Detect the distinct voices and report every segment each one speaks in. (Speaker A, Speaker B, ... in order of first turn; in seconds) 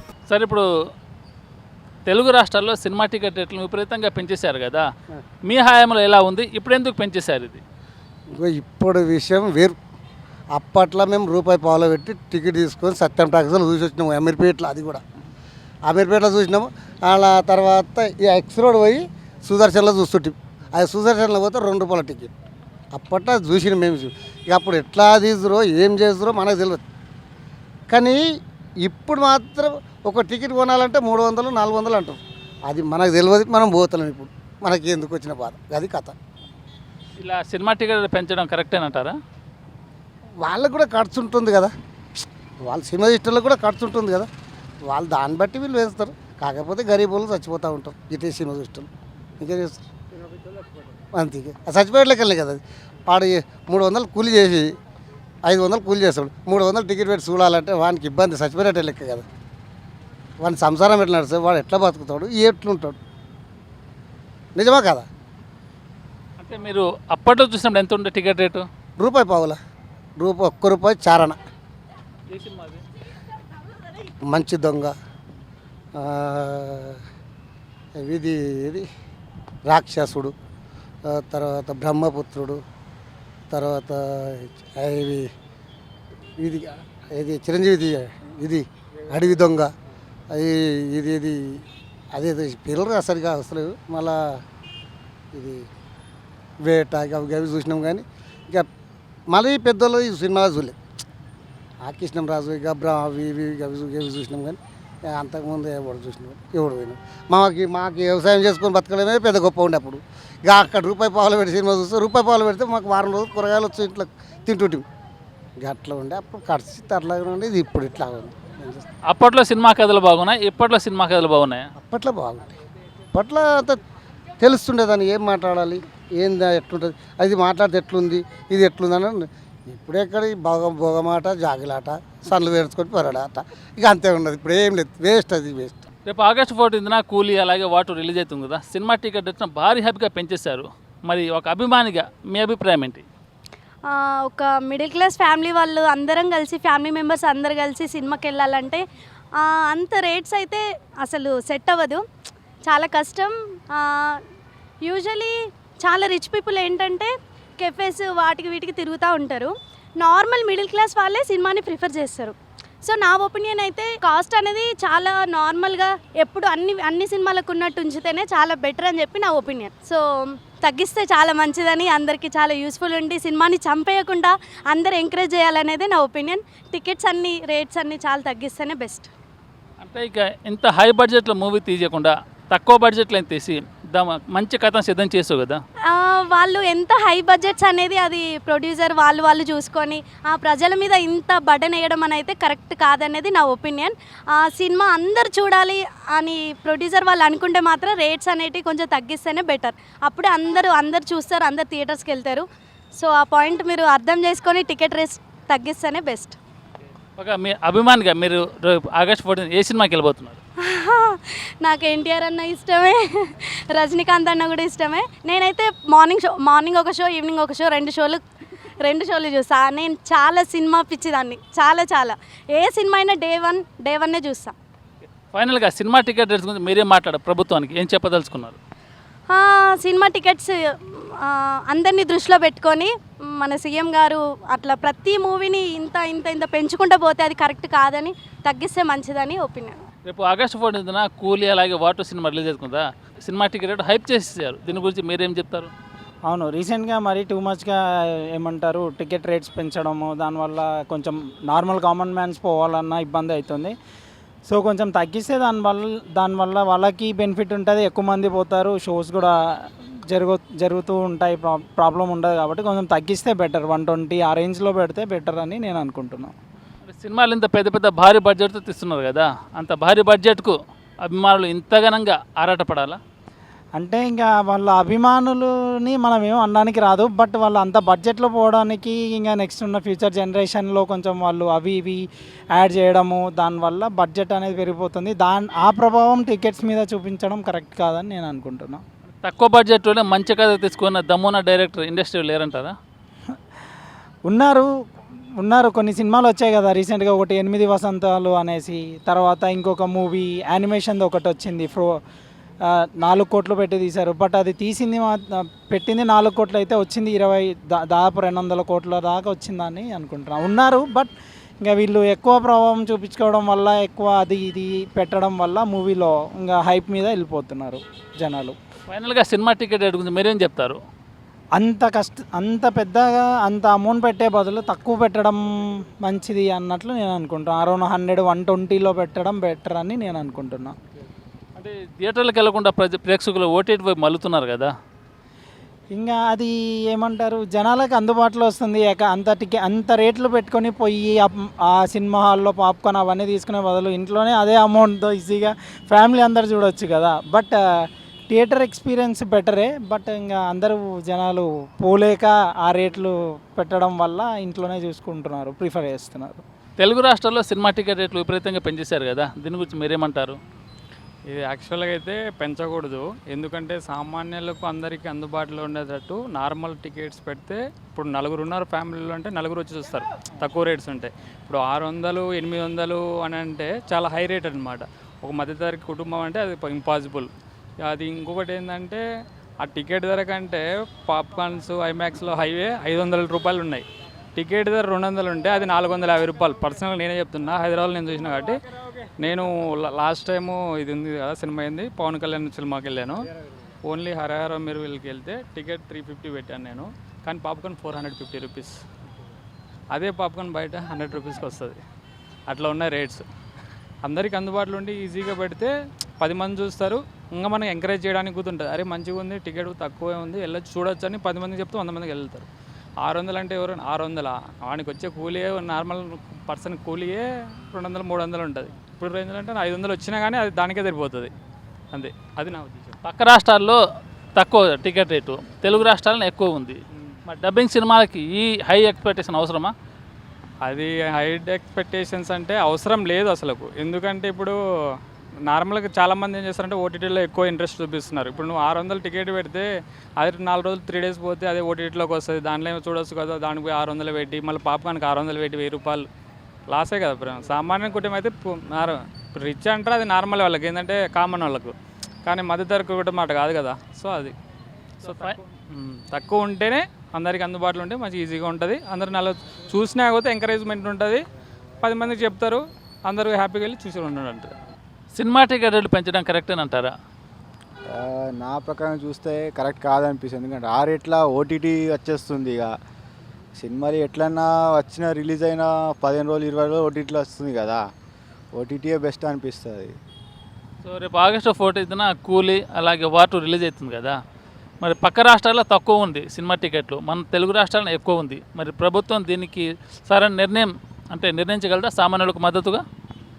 Speaker A: 0.3-0.6, 2.1-4.8, 5.5-7.6, 37.2-39.1, 66.4-68.6, 72.3-72.8, 119.1-121.6, 136.1-143.0, 179.8-185.6, 207.2-210.4, 225.3-228.6, 240.1-245.7, 266.9-270.5, 271.1-273.0, 289.2-292.7, 318.9-320.8, 331.6-334.7, 356.8-360.4, 423.1-423.8, 424.4-429.7, 455.0-455.4, 465.1-466.9, 480.8-484.1, 484.8-492.8
Speaker B: 8.4-9.8, 10.5-15.0, 15.9-22.3, 22.9-26.8, 27.9-28.2, 28.8-36.1, 40.4-41.7, 42.6-44.3, 44.9-48.9, 49.4-49.8, 51.1-54.7, 55.4-59.2, 60.4-63.0, 64.5-65.0, 69.0-69.5, 70.2-71.4, 74.3-74.9, 76.0-77.0, 78.0-78.8, 79.7-80.3, 81.1-82.6, 83.5-85.2, 86.4-89.7, 90.3-91.6, 92.1-94.4, 95.3-95.6, 96.6-98.7, 99.3-100.7, 101.8-114.8, 115.6-118.8, 121.8-122.5, 123.1-123.8, 124.4-135.8
Speaker C: 143.9-148.8, 149.4-152.0, 152.7-153.9, 154.8-170.0, 170.6-179.1, 185.9-202.4, 203.0-206.3, 210.6-218.2, 218.8-224.5, 229.3-239.8
Speaker D: 246.3-247.8, 248.4-253.7, 254.5-259.3, 260.1-266.3, 273.8-288.8, 294.2-294.6, 295.4-301.9, 302.7-305.2, 305.7-311.1, 311.6-318.5, 321.6-330.7, 335.9-347.6, 348.3-356.4
Speaker E: 361.3-377.3, 377.9-379.0, 379.6-383.8, 384.4-388.6, 389.2-393.2, 393.8-398.8, 399.9-401.8, 402.5-403.2, 404.0-412.5, 413.0-421.3, 421.9-422.9, 430.7-434.5, 435.5-439.6, 440.2-446.1, 446.7-451.7, 452.2-454.3, 455.0-461.2, 461.8-464.5
Speaker F: 467.9-472.7, 473.5-477.8, 478.5-479.9